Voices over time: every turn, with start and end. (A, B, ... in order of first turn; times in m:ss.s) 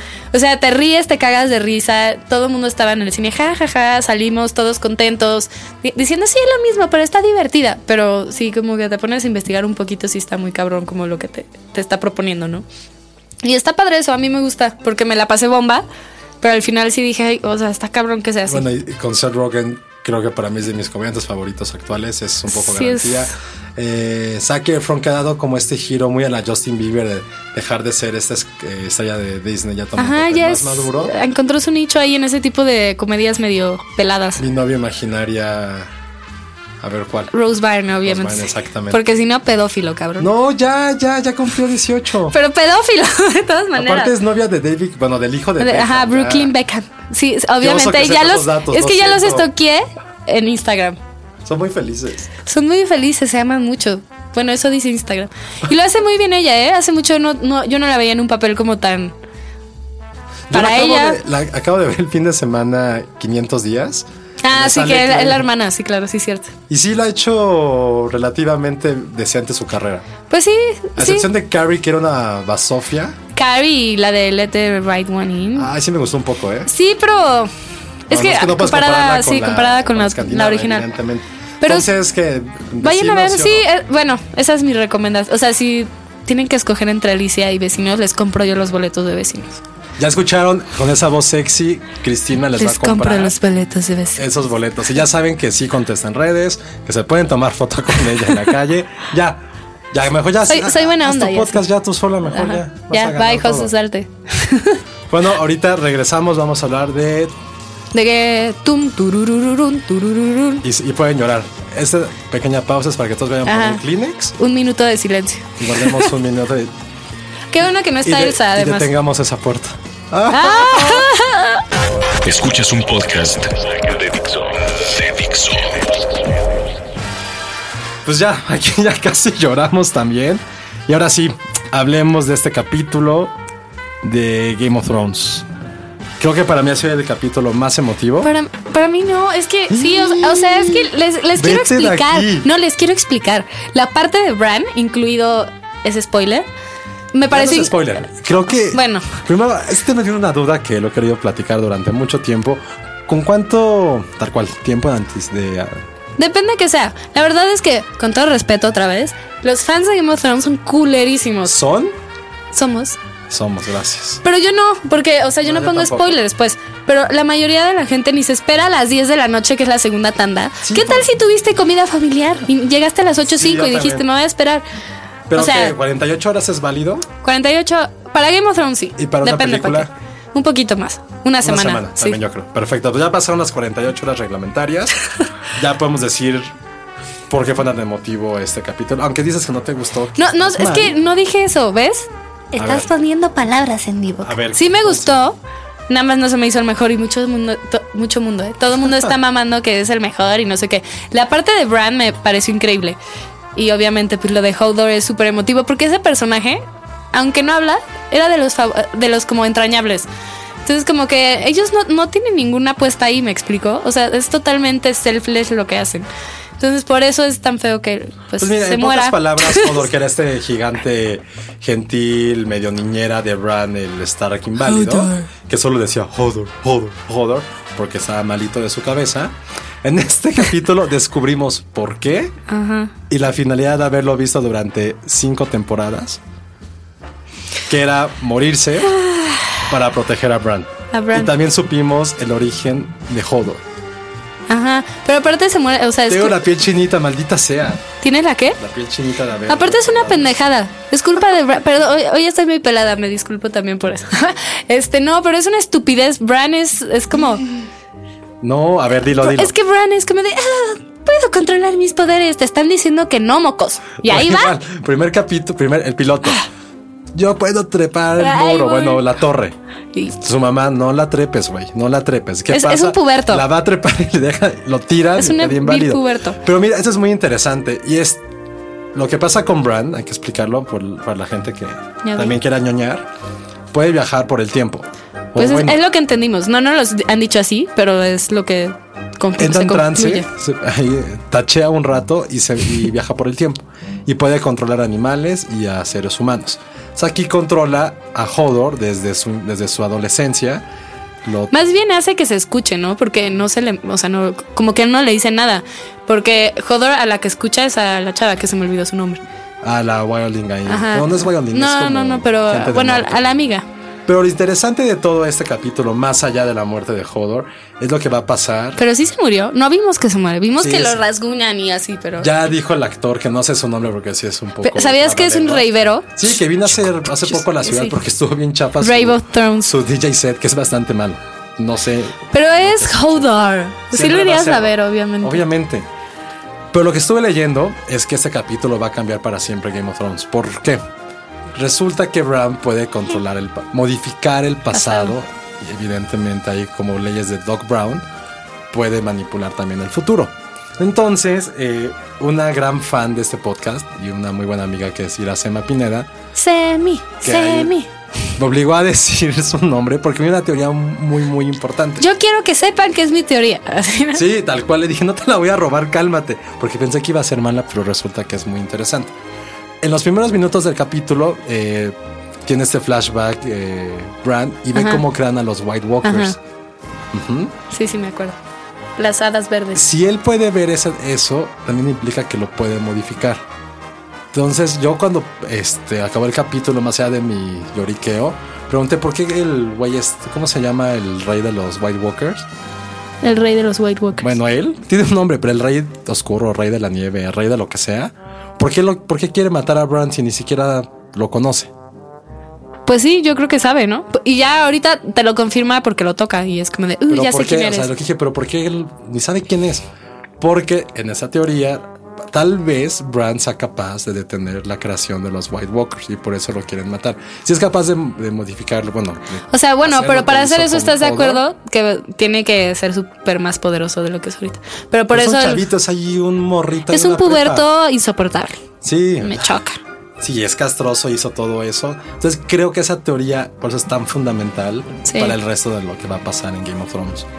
0:00.3-0:12.6 A
0:13.4-0:15.8 A
0:16.4-0:18.6 A
0:18.5-0:31.1 B
0:22.5-0:23.3 A
0:30.0-0:34.4 A
0:34.4-0:35.9 B
0:36.8-0:37.3 B
0:37.3-0:40.3 A
0:38.0-0:39.0 B
0:40.2-0:42.4 B
0:42.3-0:44.2 A
0:43.8-0:46.5 B
0:45.6-0:51.0 A
0:47.6-0:49.5 B
0:51.4-0:52.3 B
0:52.4-0:59.1 A
1:00.5-1:05.5 B
1:00.5-1:01.2 A
1:04.4-1:06.5 A
1:06.7-1:10.1 B
1:10.3-1:11.3 A
1:11.0-1:13.2 B
1:13.4-1:15.7 A
1:15.6-1:16.7 B
1:16.7-1:17.5 A
1:18.1-1:20.9 A
1:18.1-1:23.7 B
1:21.6-1:21.9 A
1:22.8-1:29.6 A
1:30.0-1:33.4 B
1:32.6-1:34.2 A
1:34.2-1:43.7 B
1:40.5-1:41.6 A
1:42.3-1:44.8 A
1:45.1-1:47.3 B
1:47.9-1:50.6 A
1:50.6-1:54.4 B
1:53.5-1:53.8 A
1:54.4-1:56.1 A
1:55.6-1:56.7 B
1:57.5-1:58.9 A
1:58.0-2:01.1 B
2:00.3-2:01.6 A
2:02.2-2:05.8 C
2:08.0-2:13.4 B
2:14.0-2:15.5 B
2:16.2-2:18.3 B
2:18.2-2:26.5 A
2:19.7-2:22.5 B
2:27.1-2:27.8 A
2:27.3-2:35.8 B
2:28.7-2:29.2 A
2:36.2-2:41.6 A
2:41.4-2:42.0 B
2:42.5-2:43.0 A
2:43.3-2:44.2 B
2:44.2-2:54.6 A
2:45.4-2:46.2 B
2:50.6-2:51.1 B
2:53.3-2:54.0 B
2:55.3-2:57.1 B
2:55.3-2:55.8 A
2:57.2-3:02.2 A
2:59.0-2:59.9 B
3:01.4-3:05.0 B
3:05.5-3:06.5 B
3:07.3-3:11.0 B
3:10.2-3:15.4 A
3:12.6-3:12.9 B
3:14.2-3:15.2 B
3:15.9-3:23.0 A
3:23.6-3:30.1 A
3:30.6-3:36.1 A
3:36.6-3:39.9 A
3:38.4-3:52.4 B
3:44.7-3:45.3 A
3:52.5-3:52.9 A
3:53.1-3:56.2 B
3:57.7-3:59.0 B
3:58.9-3:59.6 A
3:59.7-4:03.6 B
4:00.9-4:01.3 A
4:04.5-4:06.4 A
4:06.1-4:07.9 B
4:08.0-4:08.6 A
4:08.6-4:10.4 B
4:09.5-4:17.4 A
4:18.4-4:19.5 B
4:19.2-4:24.6 A
4:24.0-4:26.4 B
4:27.1-4:29.6 B
4:28.2-4:29.1 A
4:30.2-4:38.2 B
4:32.5-4:33.4 A
4:35.2-4:36.4 A
4:38.9-4:43.1 B
4:42.0-4:42.4 A
4:43.7-4:45.8 B
4:45.4-4:50.3 A
4:49.4-5:00.6 B
5:01.2-5:01.6 B
5:01.5-5:09.2 A
5:09.6-5:13.3 B
5:10.7-5:13.7 A
5:14.1-5:18.8 B
5:18.8-5:22.3 A
5:20.6-5:21.0 B
5:22.2-5:33.3 B
5:24.6-5:26.4 A
5:27.3-5:28.0 A
5:28.8-5:29.7 A
5:32.3-5:35.4 A
5:33.9-5:35.9 B
5:36.7-5:40.8 B
5:41.5-5:48.0 B
5:44.7-5:45.2 A
5:48.7-5:56.1 B
5:56.4-5:57.9 A
5:57.2-5:57.7 B
5:58.4-6:02.1 B
6:02.0-6:04.2 A
6:04.1-6:09.1 B
6:09.8-6:16.4 B
6:14.7-6:15.0 A
6:16.0-6:16.4 A
6:17.1-6:17.6 B
6:17.7-6:18.4 A
6:19.0-6:19.8 A
6:19.8-6:23.4 B
6:24.3-6:32.5 B
6:33.2-6:34.4 A
6:34.2-6:41.7 B
6:42.9-6:47.9 A
6:47.1-6:49.9 B
6:50.4-7:01.4 B
6:59.5-7:05.6 A
7:05.1-7:07.7 B
7:06.9-7:08.6 A
7:08.8-7:09.6 B
7:09.2-7:09.8 A
7:10.2-7:17.3 B
7:15.0-7:15.4 A